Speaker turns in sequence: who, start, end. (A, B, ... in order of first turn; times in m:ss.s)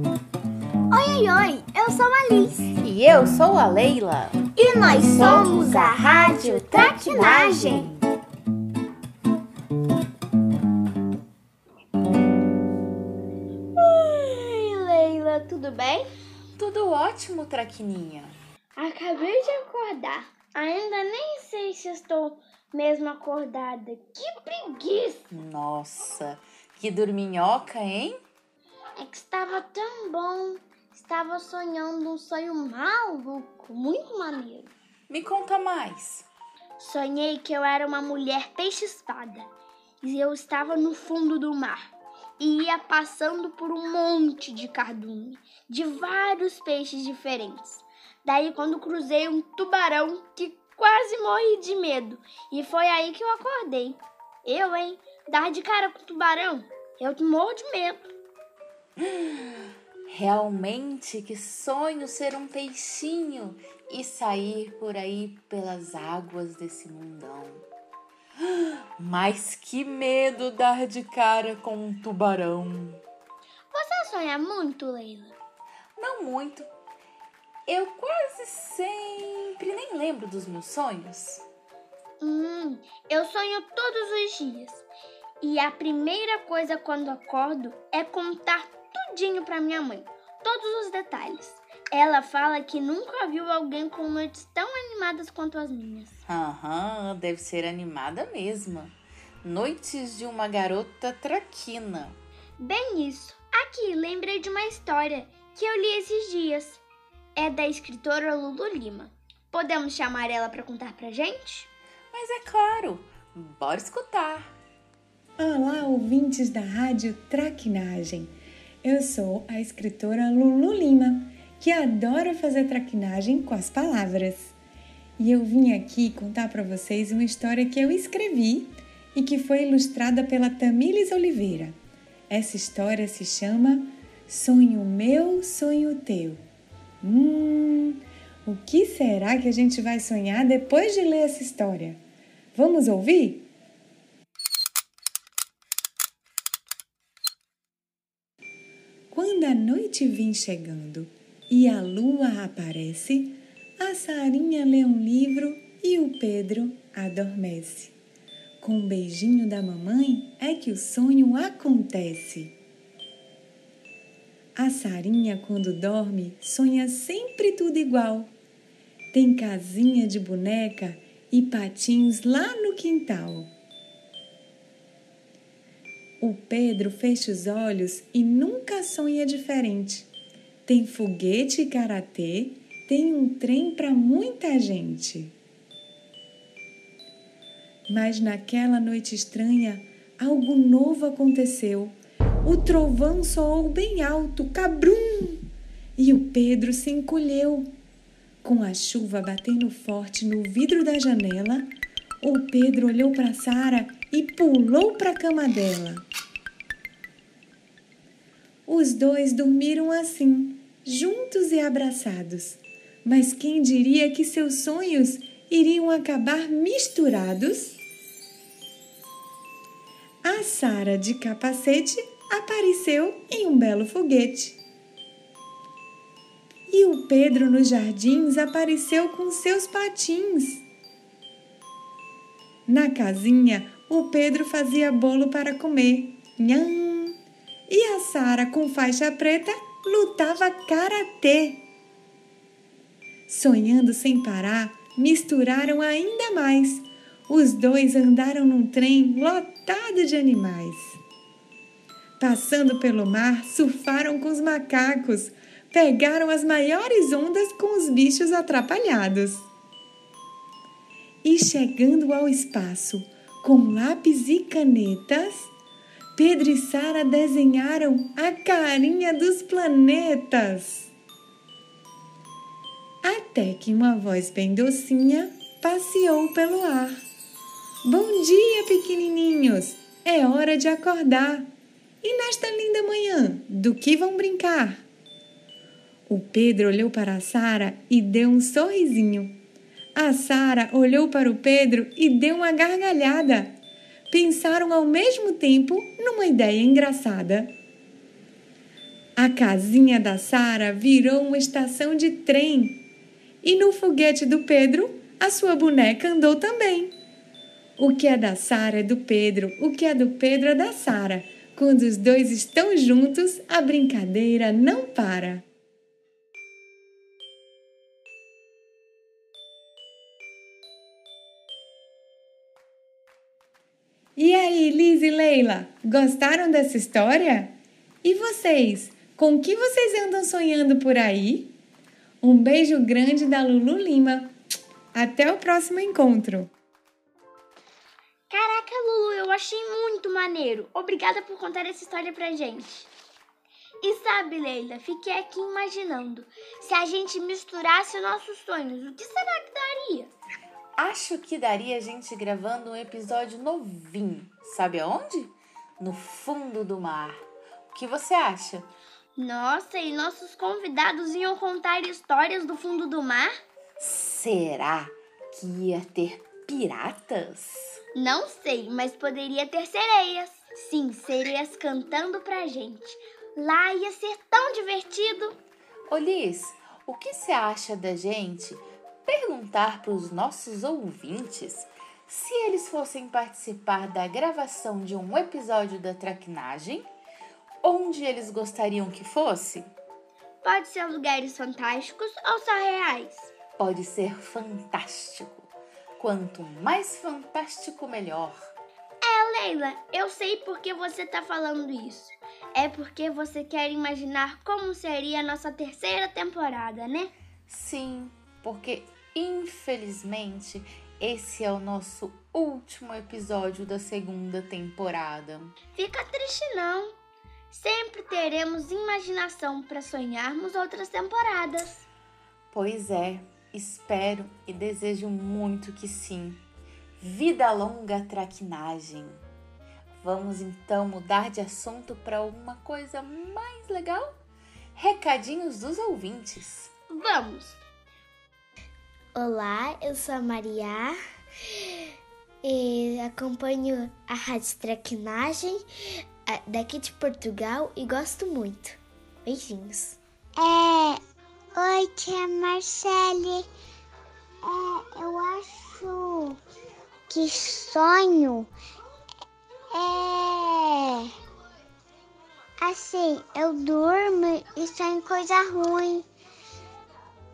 0:00.9-0:02.7 A
0:02.8-0:08.1 B
0:04.6-0:07.9 A
0:13.8-0:16.1 A
0:16.6-0:18.4 B
0:18.8-0:25.2 A
0:25.3-0:28.2 B
0:29.0-0:34.7 A
0:35.1-0:36.3 B
0:36.8-0:39.5 A
0:40.0-0:58.1 A
0:59.0-1:07.7 B
1:08.4-1:13.0 B
1:13.7-1:15.4 A
1:16.0-1:16.7 B
1:17.7-1:21.4 B
1:22.2-1:24.9 A
1:25.4-1:36.2 A
1:36.3-1:42.2 B
1:42.6-1:46.8 A
1:47.4-1:51.7 A
1:52.1-1:54.5 B
1:55.4-1:58.3 C
1:58.8-2:04.5 C
2:05.2-2:11.7 C
2:12.3-2:16.4 C
2:17.0-2:22.0 C
2:22.6-2:23.5 C
2:29.1-2:37.9 C
2:38.6-2:42.5 C
2:44.6-2:48.3 C
2:49.1-2:53.5 C
2:56.2-3:00.1 C
3:00.7-3:05.3 C
3:07.9-3:15.4 C
3:16.0-3:17.7 C
3:18.4-3:21.7 C
3:22.2-3:26.0 C
3:28.7-3:37.8 C
3:40.2-3:44.6 C
3:46.7-3:50.6 C
3:52.7-3:57.2 C
3:57.7-4:01.6 C
4:03.3-4:11.0 C
4:12.2-4:19.5 C
4:21.2-4:25.5 C
4:26.2-4:30.9 C
4:33.0-4:37.0 C
4:37.8-4:41.5 C
4:42.0-4:44.8 C
4:46.1-4:49.4 C
4:50.0-4:53.5 C
4:54.1-4:57.5 C
4:59.2-5:02.8 C
5:03.4-5:06.9 C
5:07.8-5:15.4 C
5:24.2-5:31.5 C
5:32.2-5:34.3 C
5:34.9-5:36.5 C
5:38.3-5:42.9 A
5:43.8-5:50.1 A
5:50.8-5:58.7 B
5:59.2-6:03.3 A
6:03.8-6:07.8 B
6:07.9-6:15.4 A
6:15.9-6:26.9 B
6:27.6-6:29.7 B
6:30.4-6:33.3 A
6:33.6-6:38.5 B
6:39.0-6:47.1 A
6:47.5-6:55.5 B
6:55.8-6:56.9 A
6:57.5-7:01.8 A
7:02.5-7:06.4 B
7:07.0-7:09.2 B
7:10.0-7:14.1 B
7:14.8-7:16.7 B
7:16.9-7:17.6 A
7:19.2-7:21.0 D
7:22.4-7:25.6 D
7:26.3-7:30.0 D
7:30.4-7:31.0 E
7:31.6-7:33.4 E
7:34.4-7:36.4 E
7:37.1-7:38.5 E
7:39.7-7:41.1 E
7:42.6-7:46.0 E